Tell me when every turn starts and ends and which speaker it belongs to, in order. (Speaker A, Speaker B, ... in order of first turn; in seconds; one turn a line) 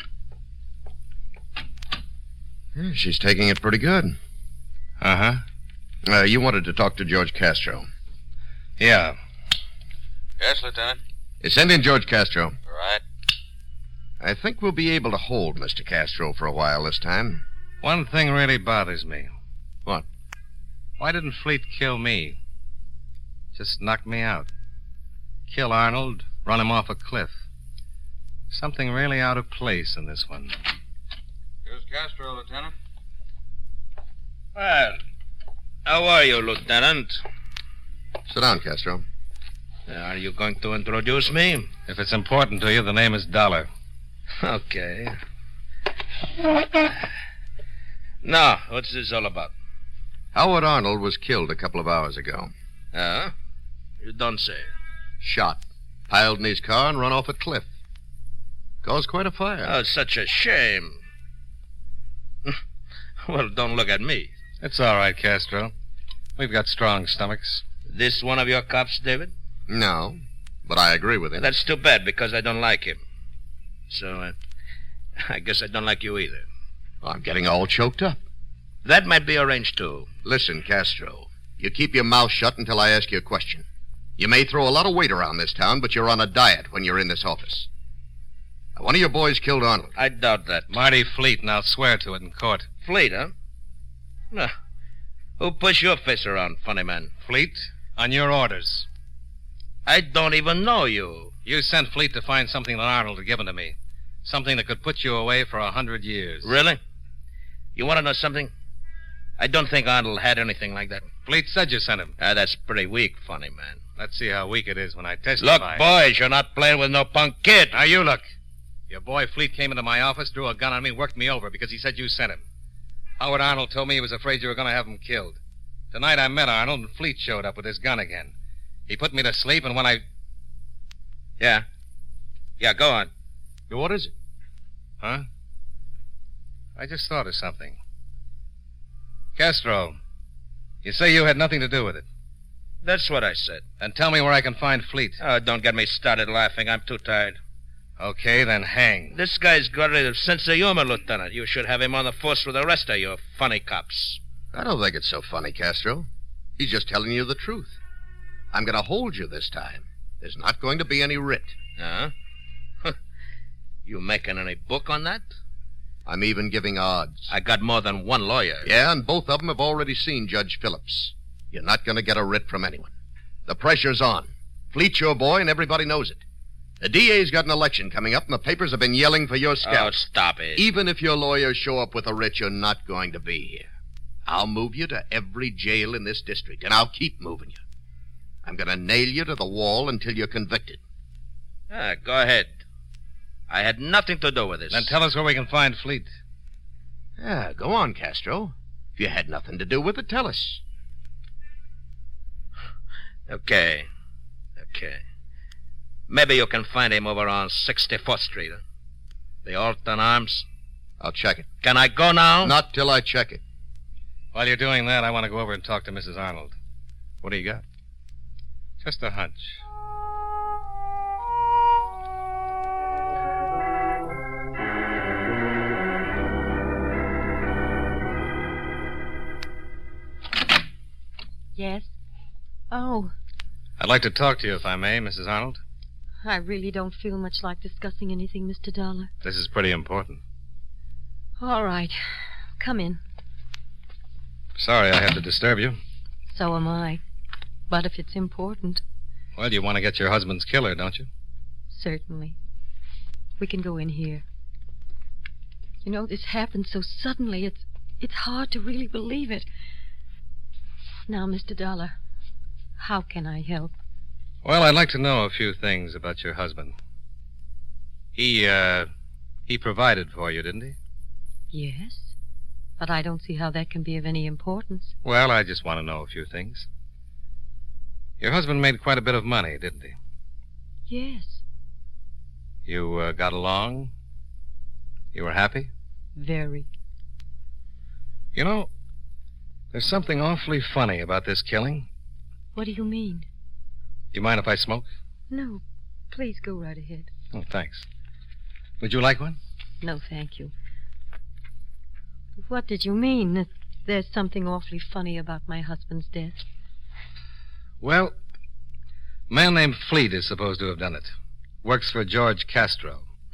Speaker A: 2.8-4.2
Speaker B: 5.0-5.4
Speaker A: 6.0-7.8
Speaker B: 8.8-9.2
Speaker C: 10.4-11.0
Speaker A: 11.4-12.6
Speaker C: 12.7-13.0
Speaker A: 14.2-17.4
Speaker B: 17.8-19.3
Speaker B: 21.0-22.4
Speaker B: 23.5-24.5
Speaker B: 25.5-27.4
Speaker B: 28.5-30.6
Speaker C: 31.6-32.7
Speaker D: 34.5-35.0
Speaker D: 35.8-37.2
Speaker A: 38.3-39.0
Speaker D: 39.9-41.7
Speaker B: 41.9-43.7
Speaker D: 44.4-45.2
Speaker D: 48.2-49.5
Speaker A: 50.3-52.5
Speaker D: 52.9-53.3
Speaker D: 54.0-54.7
Speaker A: 55.2-57.7
Speaker A: 58.8-59.7
Speaker D: 59.6-61.0
Speaker D: 63.2-64.3
Speaker B: 64.6-65.7
Speaker B: 66.4-67.6
Speaker D: 67.9-69.3
Speaker A: 69.7-71.5
Speaker D: 71.4-73.0
Speaker D: 73.9-74.3
Speaker D: 75.2-76.5
Speaker A: 77.0-78.2
Speaker D: 78.8-80.1
Speaker A: 80.2-83.7
Speaker A: 84.2-87.7
Speaker A: 88.8-89.9
Speaker D: 90.0-90.7
Speaker B: 90.7-92.7
Speaker D: 92.8-93.3
Speaker D: 95.4-97.1
Speaker B: 97.2-98.9
Speaker D: 99.8-101.3
Speaker B: 101.4-106.5
Speaker D: 106.4-106.8
Speaker D: 107.8-108.5
Speaker D: 109.4-111.1
Speaker B: 111.2-112.2
Speaker D: 112.2-113.8
Speaker B: 114.0-115.8
Speaker D: 115.4-117.8
Speaker B: 117.7-118.2
Speaker B: 118.9-122.4
Speaker B: 123.2-125.4
Speaker B: 125.9-128.3
Speaker B: 128.9-130.0
Speaker D: 131.4-131.6
Speaker D: 132.6-133.1
Speaker A: 133.7-134.1
Speaker B: 135.0-135.2
Speaker B: 136.8-137.8
Speaker B: 139.3-140.0
Speaker B: 140.8-142.1
Speaker D: 142.8-143.6
Speaker B: 143.8-145.2
Speaker D: 145.2-147.4
Speaker B: 148.0-149.2
Speaker D: 149.1-154.2
Speaker A: 154.5-157.8
Speaker A: 158.5-161.5
Speaker D: 161.8-162.1
Speaker D: 163.8-165.2
Speaker A: 166.1-167.3
Speaker D: 167.3-168.7
Speaker A: 168.6-172.9
Speaker A: 173.4-176.2
Speaker A: 176.8-179.9
Speaker D: 179.6-180.6
Speaker A: 180.6-183.7
Speaker A: 184.2-187.6
Speaker A: 188.4-190.8
Speaker D: 191.7-192.6
Speaker D: 193.5-194.9
Speaker B: 194.7-196.1
Speaker A: 197.2-200.6
Speaker D: 203.3-203.9
Speaker D: 204.6-205.0
Speaker D: 206.1-208.6
Speaker D: 209.4-210.4
Speaker A: 211.0-211.5
Speaker D: 211.6-212.6
Speaker A: 212.4-213.4
Speaker B: 214.3-216.5
Speaker B: 217.2-217.6
Speaker B: 218.8-219.6
Speaker E: 231.6-231.9
Speaker E: 232.7-233.1
Speaker B: 233.8-235.6
Speaker E: 236.2-239.1
Speaker B: 239.2-240.2
Speaker E: 241.4-242.0
Speaker E: 242.6-243.0
Speaker B: 244.6-245.8
Speaker E: 246.3-247.0
Speaker E: 247.7-248.8
Speaker B: 249.3-251.1
Speaker E: 251.7-252.3
Speaker E: 253.4-254.2
Speaker E: 255.8-259.5
Speaker E: 261.1-262.0
Speaker E: 262.8-263.7
Speaker B: 264.4-266.7
Speaker B: 268.1-268.9
Speaker B: 269.5-270.8
Speaker E: 271.5-272.1
Speaker E: 272.8-274.9
Speaker B: 275.0-276.7
Speaker B: 278.2-279.9
Speaker E: 280.9-281.4
Speaker B: 282.6-283.9
Speaker B: 285.1-285.7
Speaker E: 286.1-286.7
Speaker B: 288.3-288.7
Speaker B: 289.7-291.9
Speaker E: 292.5-293.3
Speaker B: 294.1-294.9
Speaker E: 295.3-297.1
Speaker B: 297.3-297.9
Speaker B: 298.8-299.4
Speaker E: 299.8-300.5
Speaker E: 302.4-306.4
Speaker B: 307.8-308.1
Speaker B: 309.3-311.1
Speaker B: 311.6-313.0